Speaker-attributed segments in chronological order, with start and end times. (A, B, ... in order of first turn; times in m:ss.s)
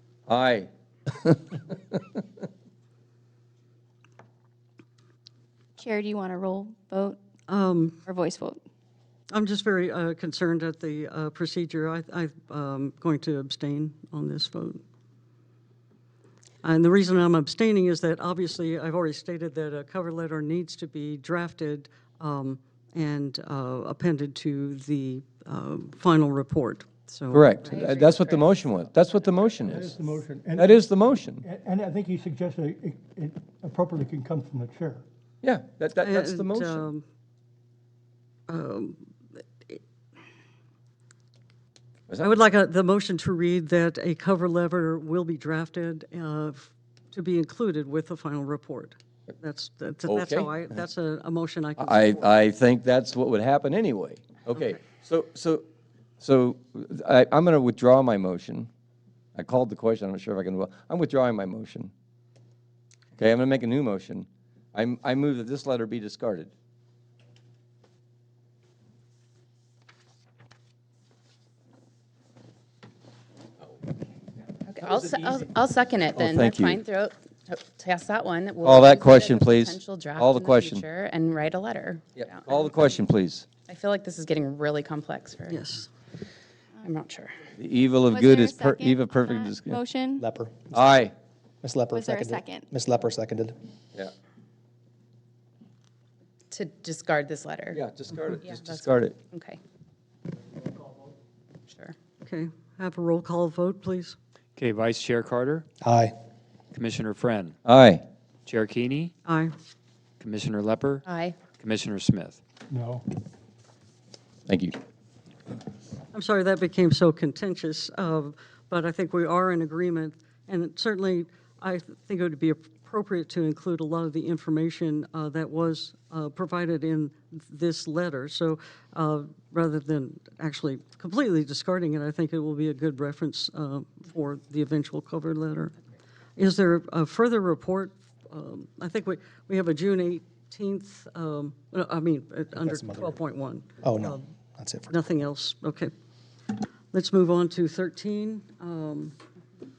0:00.3-0:02.0 A
0:05.8-0:07.2 B
0:07.5-0:08.0 C
0:08.1-0:08.6 B
0:09.3-0:14.8 C
0:16.6-0:27.8 C
0:27.3-0:29.9 A
0:27.7-0:28.6 D
0:29.6-0:30.8 E
0:30.6-0:31.4 A
0:31.4-0:35.0 E
0:35.4-0:36.9 A
0:36.0-0:37.0 C
0:38.5-0:39.0 C
0:42.2-0:52.3 C
0:50.1-0:50.5 A
0:51.8-0:55.6 A
0:56.2-0:58.7 A
0:59.4-1:01.9 A
1:03.2-1:06.5 A
1:14.7-1:22.8 D
1:14.8-1:15.4 A
1:16.2-1:16.8 A
1:18.6-1:20.8 A
1:22.2-1:23.5 A
1:23.7-1:25.6 D
1:25.5-1:25.9 C
1:26.8-1:27.4 D
1:27.6-1:29.8 A
1:28.1-1:30.2 B
1:30.2-1:30.9 F
1:30.7-1:31.1 A
1:31.6-1:33.6 F
1:31.9-1:32.6 B
1:36.5-1:37.8 D
1:37.7-1:39.2 A
1:38.4-1:39.6 D
1:41.7-1:42.0 D
1:42.2-1:44.2 C
1:44.6-1:45.7 G
1:45.8-1:46.2 F
1:46.7-1:47.6 G
1:47.6-1:48.0 A
1:48.5-1:49.1 G
1:49.2-1:49.5 C
1:50.2-1:51.0 G
1:51.0-1:51.4 D
1:51.6-1:52.4 G
1:52.7-1:53.0 E
1:54.5-1:54.8 A
1:56.1-2:15.8 C
2:16.4-2:24.3 C
2:22.6-2:23.2 F
2:23.8-2:25.0 F
2:24.9-2:25.9 C
2:26.9-2:29.2 C